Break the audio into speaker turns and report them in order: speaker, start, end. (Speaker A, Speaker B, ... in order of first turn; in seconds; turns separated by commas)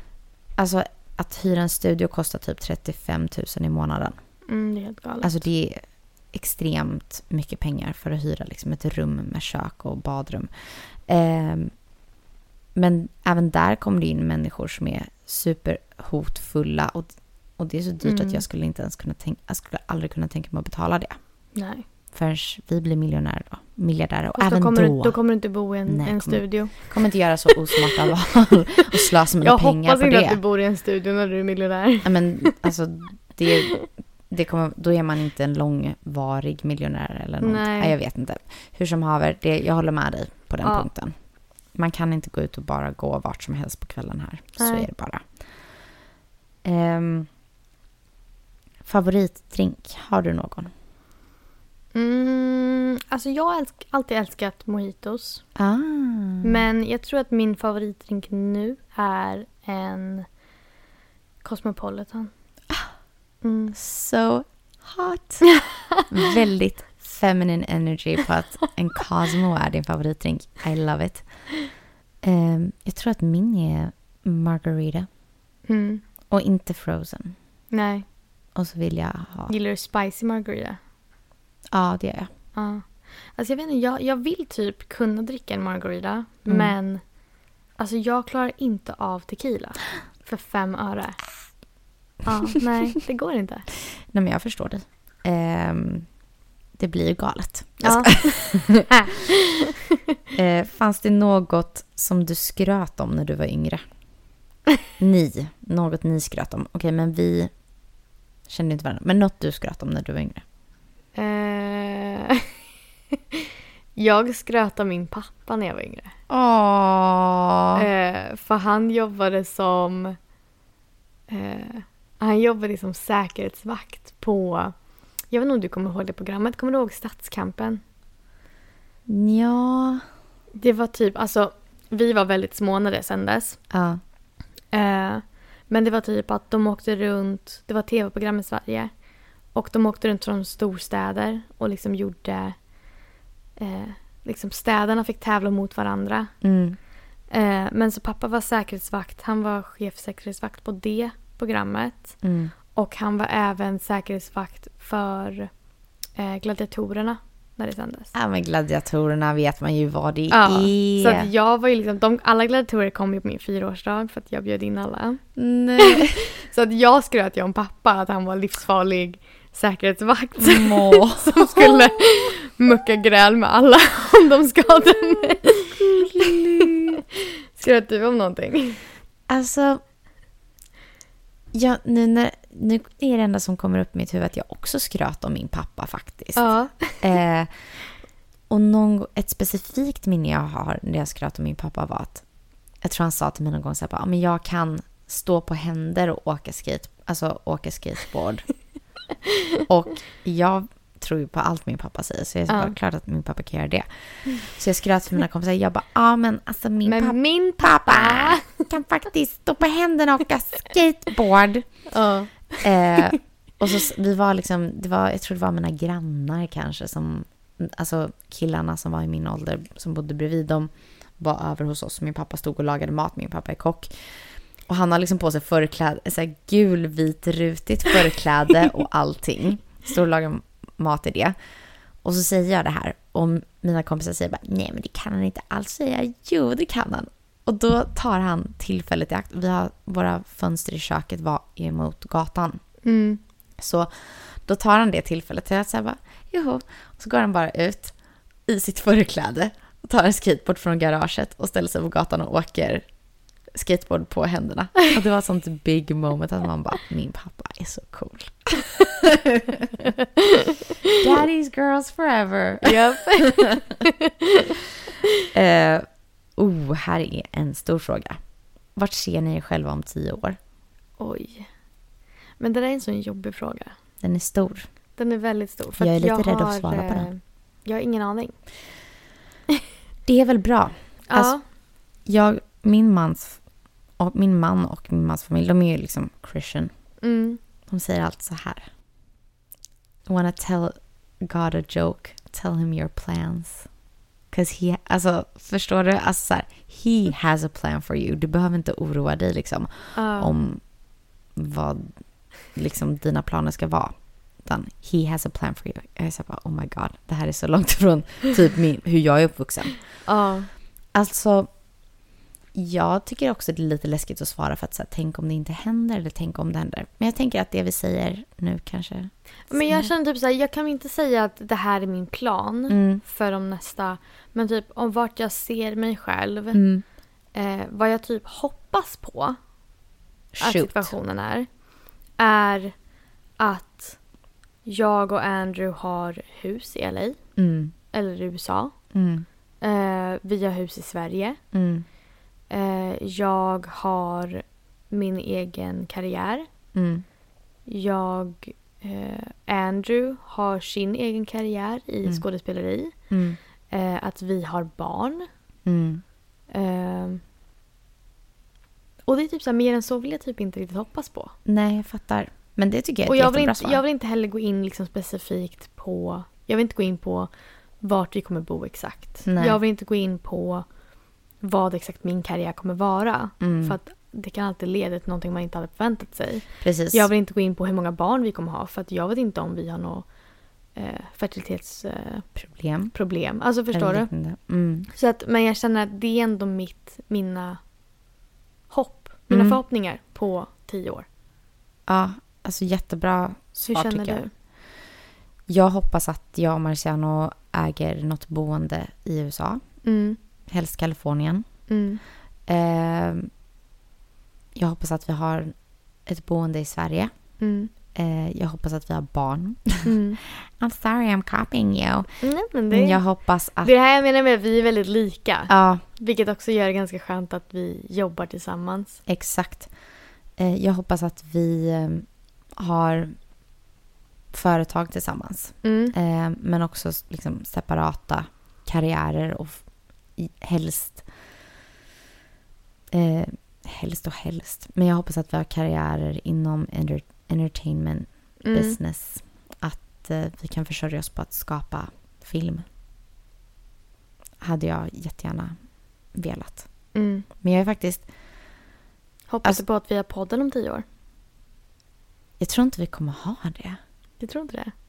Speaker A: 0.6-4.2, Speaker B: 4.5-5.3, Speaker A: 5.2-5.8, Speaker A: 6.3-11.7, Speaker A: 12.7-21.2, Speaker B: 18.0-18.4, Speaker B: 21.5-21.8, Speaker A: 22.1-25.2, Speaker B: 24.4-26.7, Speaker A: 25.9-30.4, Speaker B: 29.4-32.5, Speaker A: 32.0-41.1, Speaker B: 37.4-37.9, Speaker B: 40.6-40.9, Speaker A: 41.7-45.2, Speaker B: 44.6-44.9, Speaker A: 46.6-47.3, Speaker A: 48.8-50.7, Speaker B: 51.9-55.4, Speaker A: 55.5-56.6, Speaker B: 56.4-60.2, Speaker B: 61.4-62.3, Speaker B: 63.4-63.7, Speaker A: 63.7-65.4, Speaker B: 65.5-66.0, Speaker A: 66.1-71.3, Speaker A: 72.2-75.1, Speaker B: 75.7-76.0, Speaker A: 76.3-77.3, Speaker B: 77.7-78.0, Speaker A: 78.5-79.5, Speaker B: 79.5-80.8, Speaker A: 81.7-82.3, Speaker B: 82.5-87.0, Speaker A: 86.5-86.7, Speaker B: 87.8-91.2, Speaker B: 92.2-93.7, Speaker A: 94.1-96.0, Speaker A: 96.8-98.9, Speaker B: 97.8-100.1, Speaker A: 100.3-103.8, Speaker A: 105.0-107.5, Speaker A: 108.5-110.4, Speaker B: 111.1-112.5, Speaker B: 113.1-116.1, Speaker A: 116.3-117.8, Speaker B: 117.7-120.2, Speaker B: 121.3-124.7, Speaker B: 125.3-127.8, Speaker A: 129.1-130.0, Speaker B: 130.5-133.6, Speaker A: 133.7-134.0, Speaker B: 134.7-138.9, Speaker B: 139.5-142.6, Speaker B: 143.6-146.3, Speaker A: 146.4-146.8, Speaker B: 147.3-152.2, Speaker A: 152.2-152.5, Speaker B: 152.7-155.5, Speaker B: 156.2-158.1, Speaker A: 158.1-161.3, Speaker B: 160.3-165.2, Speaker A: 165.4-166.3, Speaker B: 165.8-178.8, Speaker A: 170.4-171.7, Speaker A: 175.7-177.0, Speaker A: 179.3-179.8, Speaker A: 181.5-187.5, Speaker B: 186.3-187.0, Speaker A: 188.5-192.2, Speaker A: 192.8-198.4, Speaker A: 199.7-211.7, Speaker B: 202.5-202.7, Speaker B: 206.8-208.6, Speaker B: 211.9-213.0, Speaker A: 212.6-223.9, Speaker A: 224.7-231.3, Speaker A: 232.0-242.6, Speaker B: 242.8-243.2, Speaker A: 243.6-247.9, Speaker A: 248.4-252.8, Speaker A: 253.5-259.9, Speaker B: 260.2-260.5, Speaker A: 260.8-263.7, Speaker B: 262.6-264.5, Speaker A: 265.3-268.2, Speaker A: 268.8-270.4, Speaker B: 271.0-271.5, Speaker B: 272.4-273.7, Speaker A: 274.0-274.7, Speaker B: 275.0-278.3, Speaker A: 275.8-277.1, Speaker A: 280.1-281.3, Speaker B: 281.1-281.4, Speaker A: 282.1-283.4, Speaker A: 284.0-286.7, Speaker B: 287.0-287.4, Speaker A: 287.7-288.7, Speaker A: 290.1-293.7, Speaker A: 294.3-300.6, Speaker B: 299.9-300.3, Speaker A: 301.4-301.9, Speaker A: 302.5-309.8, Speaker B: 310.1-310.5, Speaker A: 310.9-311.5, Speaker A: 312.5-319.9, Speaker B: 319.5-326.6, Speaker A: 322.7-323.0, Speaker A: 326.5-326.8, Speaker B: 327.3-329.4, Speaker A: 330.3-330.9, Speaker B: 330.4-331.5, Speaker B: 332.2-332.7, Speaker B: 333.4-334.0, Speaker B: 334.6-337.2, Speaker A: 337.4-337.7, Speaker B: 337.9-338.7, Speaker A: 338.9-339.2, Speaker B: 339.6-341.4, Speaker A: 341.5-341.8, Speaker B: 342.5-346.4, Speaker A: 346.7-347.0, Speaker B: 347.7-352.9, Speaker A: 353.1-353.4, Speaker B: 353.7-355.3, Speaker A: 355.6-356.0, Speaker B: 356.5-357.2, Speaker B: 359.1-361.3, Speaker A: 361.4-363.8, Speaker B: 363.1-367.3, Speaker B: 367.8-370.6, Speaker A: 369.2-369.6, Speaker B: 371.4-380.1, Speaker A: 373.4-373.8, Speaker A: 376.6-377.1, Speaker B: 380.7-382.2, Speaker A: 382.4-382.9, Speaker B: 382.9-384.1, Speaker A: 383.7-384.9, Speaker B: 384.9-387.6, Speaker B: 388.7-391.1, Speaker A: 389.3-389.6, Speaker A: 391.9-394.2, Speaker B: 393.7-394.3, Speaker A: 395.5-399.6, Speaker B: 399.8-400.2, Speaker A: 400.5-401.4, Speaker B: 401.7-402.0, Speaker A: 402.5-403.3, Speaker A: 404.6-405.5, Speaker A: 406.1-407.1, Speaker B: 407.4-407.7, Speaker A: 407.9-412.2, Speaker B: 409.8-410.2, Speaker B: 412.2-413.0, Speaker A: 412.7-413.7, Speaker B: 413.6-419.0, Speaker A: 415.5-415.8, Speaker A: 419.1-419.7, Speaker A: 420.4-422.1, Speaker A: 422.6-423.1, Speaker A: 424.3-429.6, Speaker B: 425.6-425.9, Speaker A: 430.2-431.0, Speaker A: 432.9-442.6, Speaker B: 438.4-438.8, Speaker A: 444.4-445.6, Speaker A: 446.1-446.7, Speaker B: 446.9-447.3, Speaker A: 447.4-448.1, Speaker B: 449.3-450.8, Speaker A: 452.4-453.8, Speaker B: 454.2-454.7